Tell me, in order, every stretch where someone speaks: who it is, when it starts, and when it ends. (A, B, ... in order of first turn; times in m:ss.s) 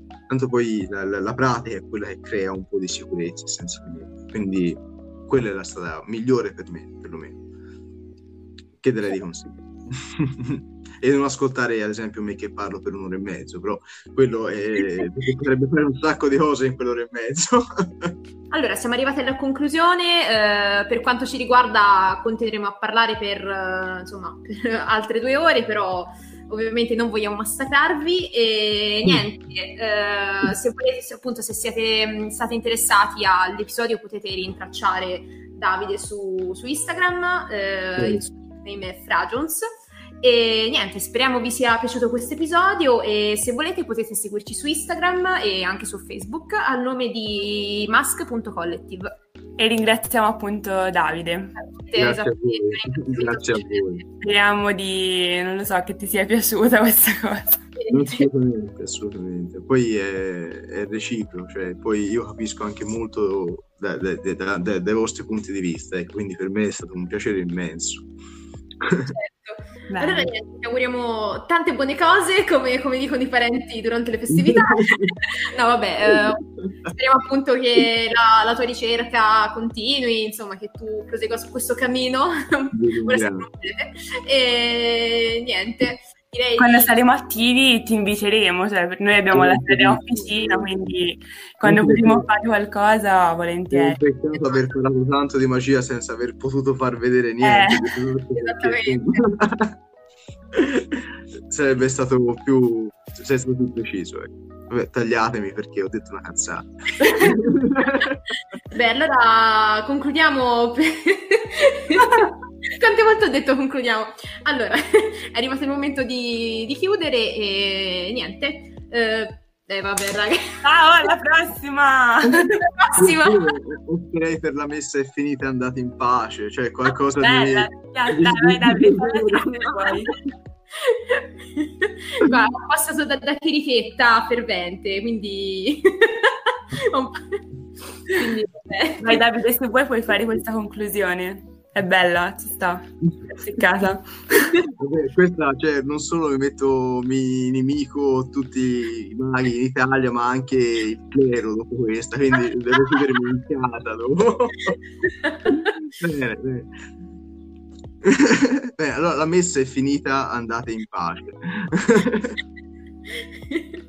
0:00.3-0:07.4 A
0:08.8-0:18.1 A
0:18.5-0:39.7 B
0:38.0-0:38.2 A
0:40.2-0:49.1 B
0:49.6-0:51.6 C
0:51.6-0:54.0 B
0:51.9-0:54.0 A
0:54.2-0:57.6 C
0:57.8-0:58.3 B
0:57.9-1:08.1 A
1:08.8-1:09.1 A
1:09.0-1:26.9 B
1:09.9-1:10.3 C
1:14.3-1:15.1 A
1:22.7-1:23.4 A
1:26.6-1:34.0 C
1:29.3-1:30.9 A
1:31.6-1:32.3 A
1:33.7-1:39.8 A
1:34.3-1:34.7 B
1:37.4-1:37.9 C
1:38.3-1:39.2 B
1:40.5-1:48.2 A
1:48.7-2:00.6 B
2:00.6-2:02.6 C
2:02.7-2:03.5 B
2:03.0-2:10.0 A
2:07.2-2:10.2 C
2:10.8-2:17.4 B
2:18.1-2:19.2 B
2:19.0-2:24.5 C
2:24.3-2:24.7 B
2:24.8-2:34.8 A
2:35.2-2:35.7 B
2:35.5-2:36.7 A
2:38.0-2:42.4 A
2:43.5-2:43.8 B